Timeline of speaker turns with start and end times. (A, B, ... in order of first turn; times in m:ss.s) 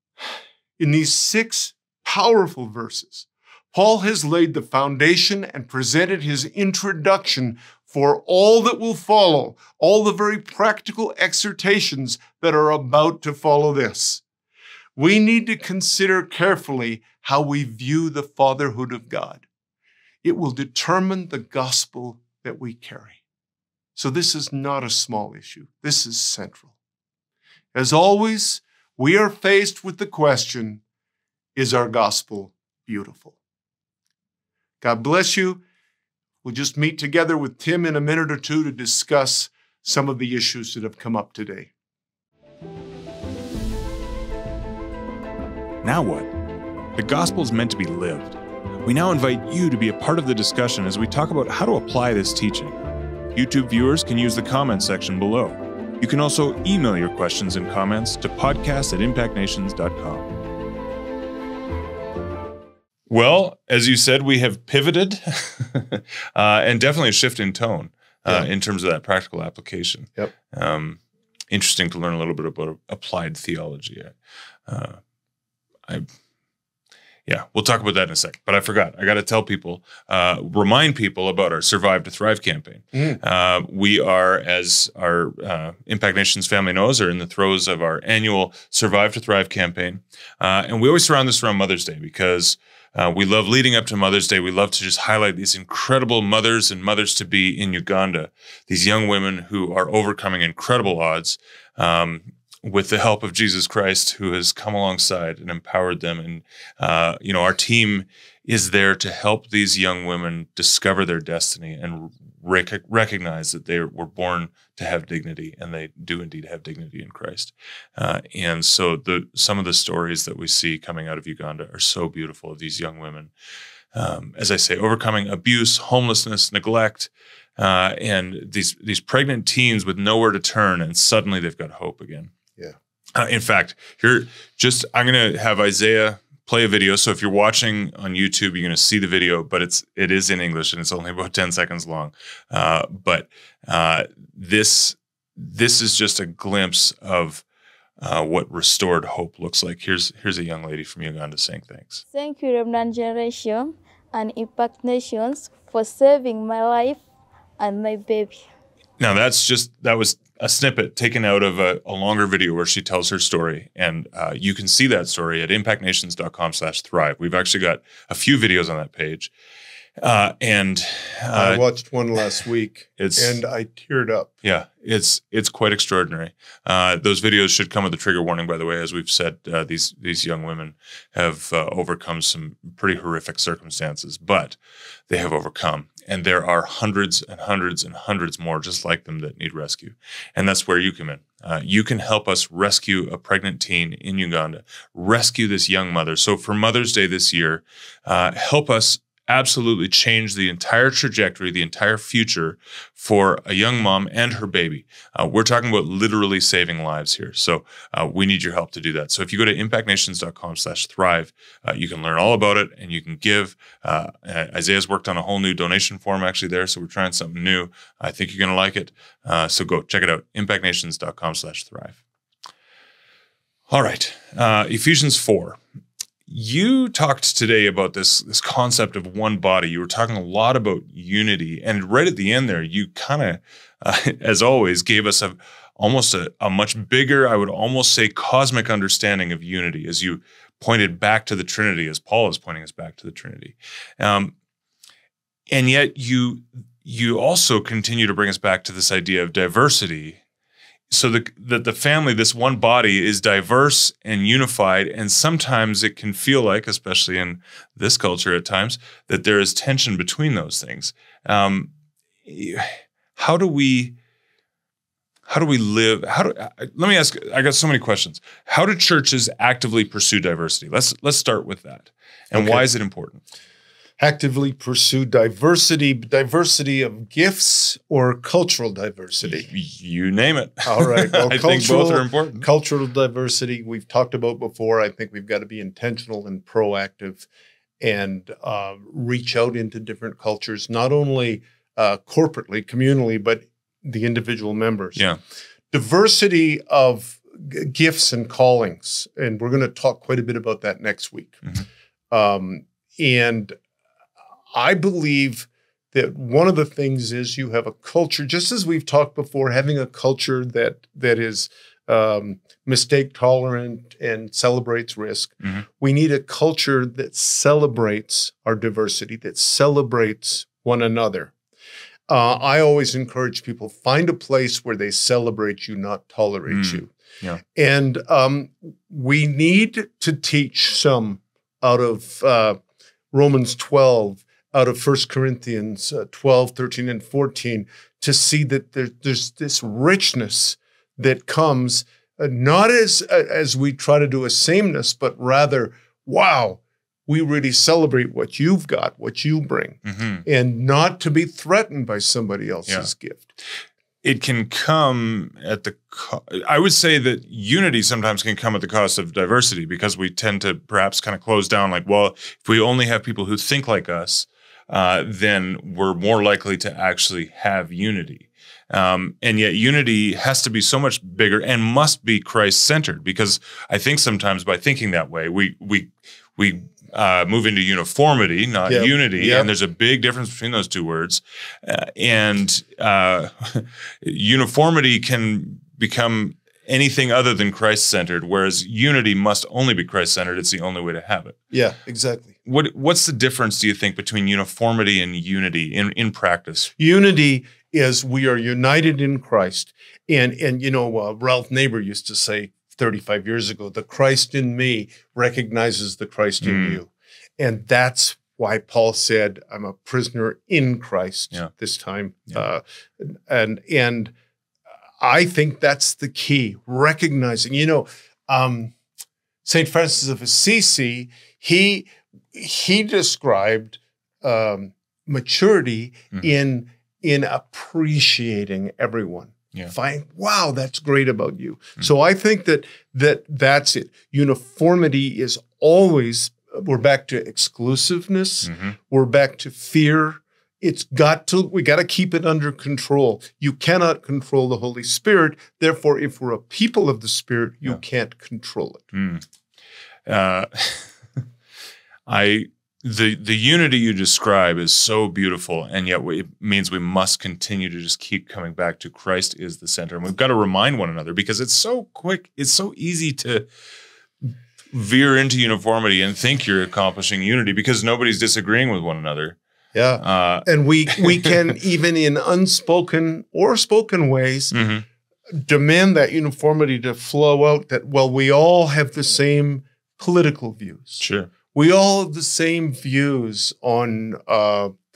0:00.8-0:14.2 A
0:15.0-0:19.4 A
0:20.2-0:23.2 A
0:24.0-0:26.7 A
0:27.7-0:30.8 A
0:31.5-0:33.4 A
0:34.8-0:35.6 A
0:36.4-0:41.7 A
0:45.8-0:46.3 B
0:46.9-0:52.8 B
0:53.3-1:00.3 B
1:03.1-1:14.2 B
1:14.7-1:15.0 B
1:17.2-2:03.3 B
1:22.9-1:23.2 A
2:03.9-2:12.3 B
2:13.1-2:27.4 B
2:28.0-2:32.0 B
2:32.1-2:37.0 C
2:37.6-2:38.4 C
2:39.0-2:49.3 B
2:50.0-2:51.6 B
2:51.3-2:54.3 A
2:53.0-2:53.4 B
2:54.4-3:04.6 B
3:05.1-3:42.0 B
3:43.7-3:45.6 B
3:46.3-4:04.3 B
4:05.5-4:10.2 B
4:10.9-4:21.7 B
4:22.2-4:24.0 B
4:25.3-4:33.2 B
4:32.3-4:32.6 A
4:34.0-4:39.5 A
4:39.2-4:42.4 B
4:40.6-4:47.3 A
4:47.8-4:55.0 A
4:55.7-5:01.5 A
5:02.1-5:03.6 A
5:04.5-5:21.3 A
5:22.1-5:26.9 A
5:26.5-5:27.4 B
5:27.5-5:32.6 A
5:33.1-5:53.3 A
5:49.8-5:50.2 B
5:54.0-6:31.4 B
6:18.6-6:19.5 A
6:31.5-6:32.3 A
6:32.4-6:36.7 B
6:36.8-6:54.1 A
6:46.4-6:46.8 B
6:55.0-6:58.7 A
6:59.4-7:28.9 A
7:18.4-7:18.7 B
7:28.9-7:29.2 B
7:30.0-7:31.2 B
7:32.1-7:43.5 B
7:44.7-7:49.4 B
7:49.7-7:54.5 A
7:50.0-7:51.3 B
7:54.5-7:54.8 B
7:55.3-8:04.7 A
8:01.0-8:01.3 B